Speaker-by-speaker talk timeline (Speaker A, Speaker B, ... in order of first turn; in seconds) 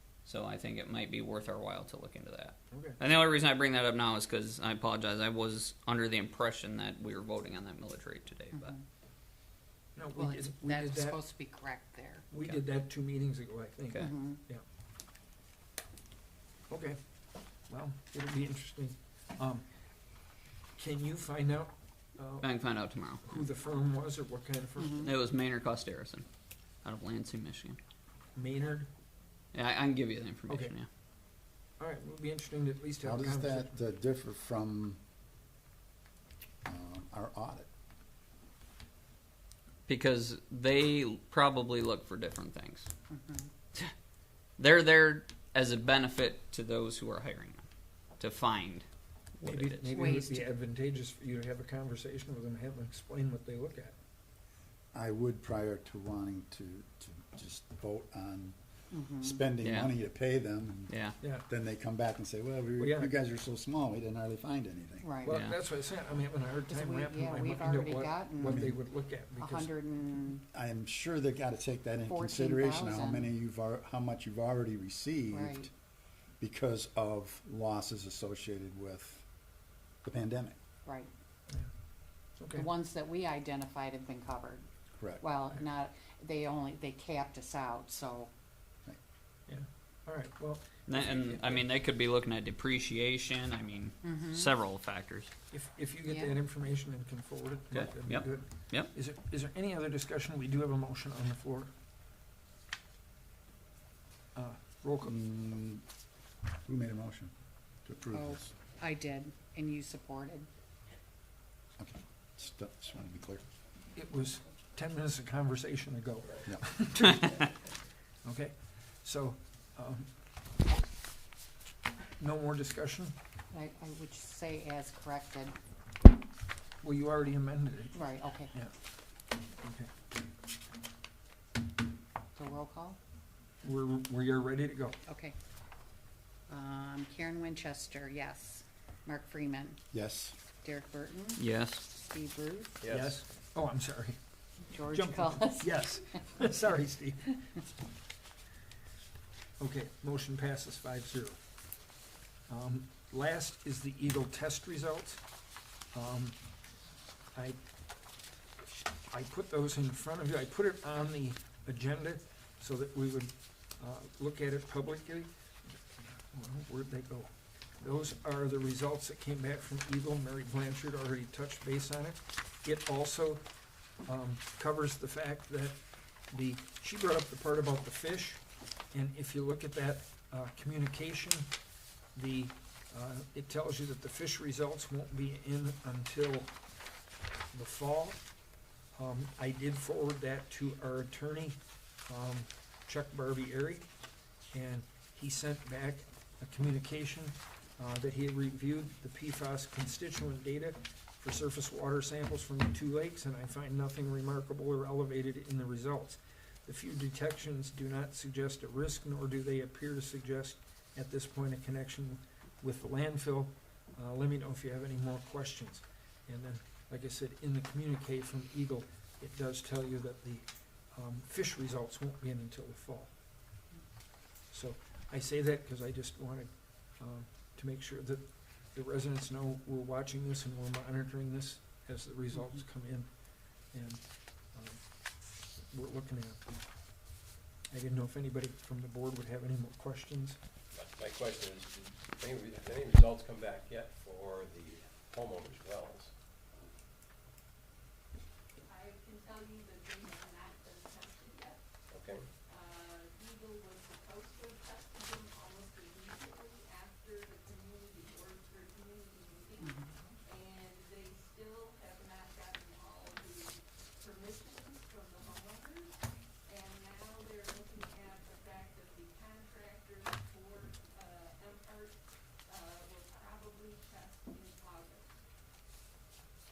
Speaker A: 0.2-8.7, 22.4-23.4, 24.8-26.2, 26.8-27.8, 29.5-30.9, 39.9-42.9, 44.6-47.6, 48.2-48.8, 49.4-49.9, 59.6-59.9, 60.9-61.1, 65.2-65.6, 90.9-95.3, 97.7-98.9, 141.3-141.8
Speaker B: 2.7-3.0, 9.9-11.2, 12.3-14.6, 16.7-22.5, 23.1-25.1, 28.4-28.9, 30.5-30.7, 31.8-33.8, 49.4-54.0, 62.8-63.1, 65.2-69.7, 82.3-82.7, 89.5-91.7, 95.5-101.7, 104.3-105.1, 113.9-117.7, 118.2-120.5, 122.2-123.1, 126.8-128.7, 129.6-129.9, 133.6-135.0, 142.9-144.2, 144.8-147.4, 149.6-151.4, 152.5-155.2, 155.9-156.4, 157.3-157.6, 158.9-173.4, 174.0-181.5, 182.1-186.5, 187.5-188.2, 188.9-193.9, 194.5-223.1, 224.5-236.4, 237.7-240.4
Speaker C: 8.5-8.8, 10.1-12.3, 14.0-14.4, 24.8-25.1, 43.1-43.5, 49.9-50.5, 58.9-59.4, 65.0-65.4, 66.7-68.6, 69.4-70.4, 72.0-73.3, 75.3-75.7, 80.8-81.1, 82.5-84.6, 85.2-88.3, 94.0-94.5, 96.0-96.4, 108.1-110.5, 123.5-125.5, 127.9-128.5, 132.3-133.0, 135.1-135.3, 136.5-139.8, 140.6-141.4, 141.9-142.8, 144.7-146.5, 259.6-259.9
Speaker D: 33.0-35.0, 36.6-37.7, 54.9-58.6, 59.2-60.9, 61.5-65.1, 68.4-68.8, 70.5-75.7, 76.4-79.2, 80.0-80.6, 85.0-85.3, 105.0-105.8, 106.7-107.3, 107.8-108.5, 111.8-113.4, 139.9-140.4
Speaker E: 142.8-143.2, 240.7-246.1, 251.9-252.2
Speaker F: 248.6-251.6, 252.4-275.2